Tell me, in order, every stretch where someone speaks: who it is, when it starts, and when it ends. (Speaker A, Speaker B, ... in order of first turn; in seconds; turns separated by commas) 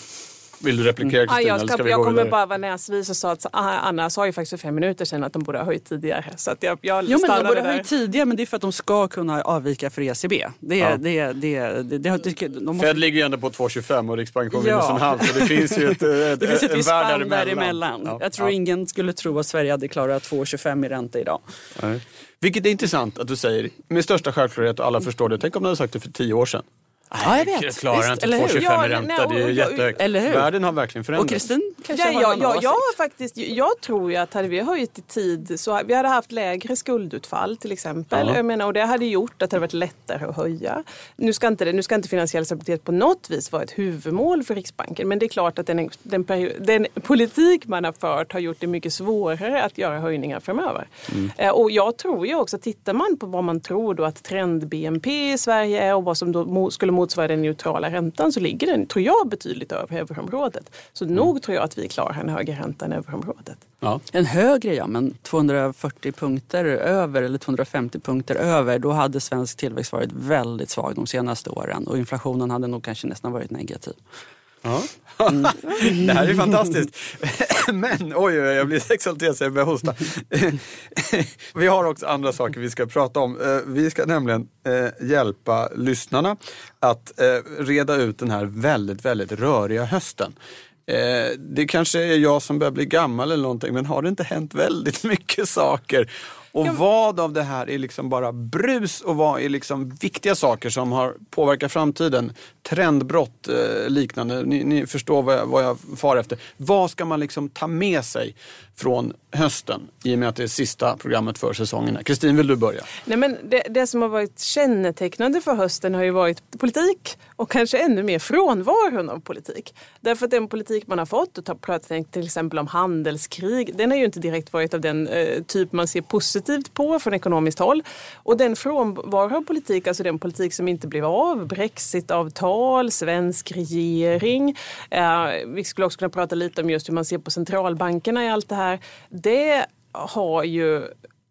Speaker A: 0.6-2.4, Speaker B: 1.2-7.9, Speaker C: 7.1-13.1, Speaker A: 12.8-18.5, Speaker C: 14.5-21.4, Speaker A: 21.8-31.5, Speaker C: 27.2-28.7, Speaker B: 28.5-29.9, Speaker C: 30.0-30.5, Speaker C: 31.1-32.9, Speaker B: 31.9-63.6, Speaker A: 38.1-38.4, Speaker C: 64.1-74.0, Speaker A: 74.6-90.3, Speaker A: 90.9-112.9, Speaker B: 113.0-140.9